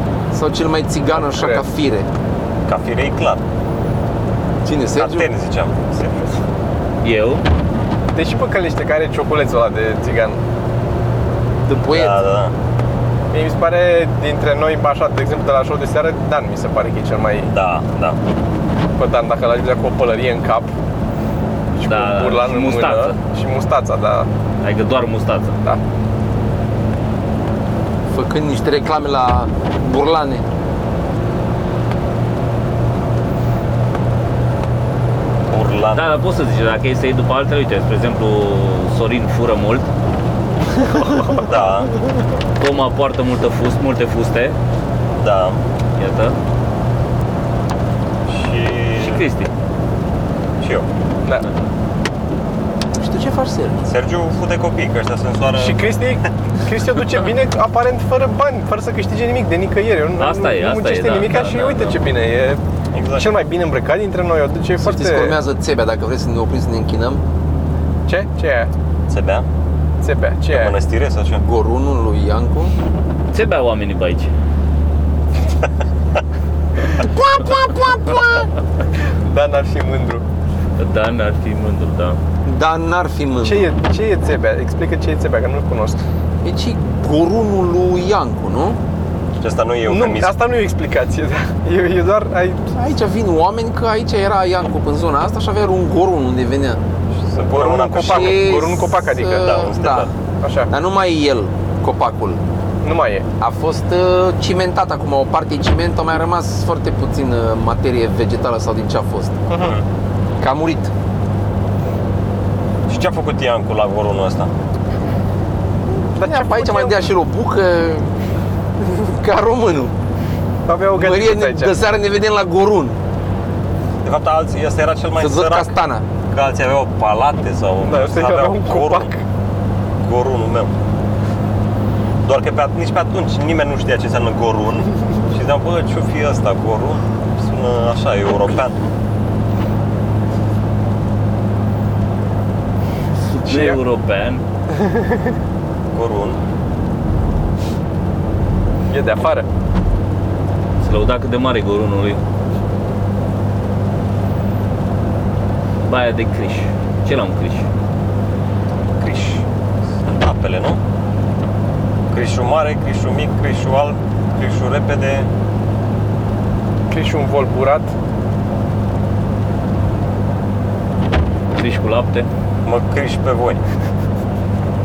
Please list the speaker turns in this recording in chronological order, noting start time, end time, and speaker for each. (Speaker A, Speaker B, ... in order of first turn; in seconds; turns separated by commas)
Speaker A: 0.3-2.1, Speaker B: 1.1-1.6, Speaker C: 2.6-3.4, Speaker A: 4.6-5.3, Speaker C: 5.0-6.4, Speaker D: 7.0-7.4, Speaker B: 8.1-10.4, Speaker A: 11.7-12.2, Speaker C: 11.8-12.5, Speaker B: 13.3-17.5, Speaker C: 17.5-18.2, Speaker B: 19.0-20.7, Speaker B: 21.8-24.3, Speaker D: 21.8-23.2, Speaker D: 24.6-25.6, Speaker A: 28.1-30.4, Speaker C: 35.5-36.1, Speaker D: 35.9-39.9, Speaker B: 40.9-41.5, Speaker C: 41.4-41.9, Speaker D: 42.6-44.5, Speaker C: 45.1-45.6, Speaker D: 46.0-46.4, Speaker C: 48.3-49.3, Speaker D: 49.0-49.5, Speaker C: 50.6-50.9, Speaker A: 53.0-53.8, Speaker C: 53.9-55.8, Speaker B: 55.5-62.6, Speaker D: 60.2-62.0, Speaker C: 62.9-63.3, Speaker B: 63.1-65.4, Speaker A: 64.8-67.2, Speaker B: 68.0-68.7, Speaker C: 69.1-69.5, Speaker B: 70.0-70.8, Speaker C: 70.5-71.4, Speaker A: 71.4-72.7, Speaker D: 73.3-74.3, Speaker A: 76.9-78.5, Speaker B: 79.2-80.2, Speaker D: 80.8-82.2, Speaker A: 82.4-83.7, Speaker B: 83.4-86.0, Speaker A: 86.4-88.8, Speaker C: 89.4-90.3, Speaker B: 89.9-92.7, Speaker A: 92.7-96.8, Speaker C: 97.2-98.5, Speaker B: 97.4-99.5, Speaker A: 98.0-100.1, Speaker C: 99.4-100.1, Speaker B: 100.4-100.7, Speaker A: 100.7-102.4, Speaker B: 102.8-103.2, Speaker A: 103.4-109.4, Speaker B: 109.5-109.8, Speaker C: 109.6-109.8, Speaker A: 110.4-110.9, Speaker C: 112.9-114.5, Speaker A: 116.1-118.1, Speaker B: 116.2-117.0, Speaker A: 118.8-119.9, Speaker B: 120.7-121.7, Speaker A: 120.9-123.0, Speaker C: 124.0-125.7, Speaker A: 125.2-126.0, Speaker C: 126.3-129.1, Speaker B: 127.8-129.2, Speaker C: 130.0-130.7, Speaker C: 132.2-138.8, Speaker D: 143.4-144.4, Speaker B: 143.4-143.8, Speaker C: 145.9-146.4, Speaker B: 148.9-149.5, Speaker D: 150.8-152.2, Speaker D: 155.8-157.7, Speaker C: 159.0-159.4, Speaker C: 160.0-160.8, Speaker C: 162.1-165.3, Speaker B: 166.9-167.9, Speaker D: 171.6-172.3, Speaker C: 172.6-173.6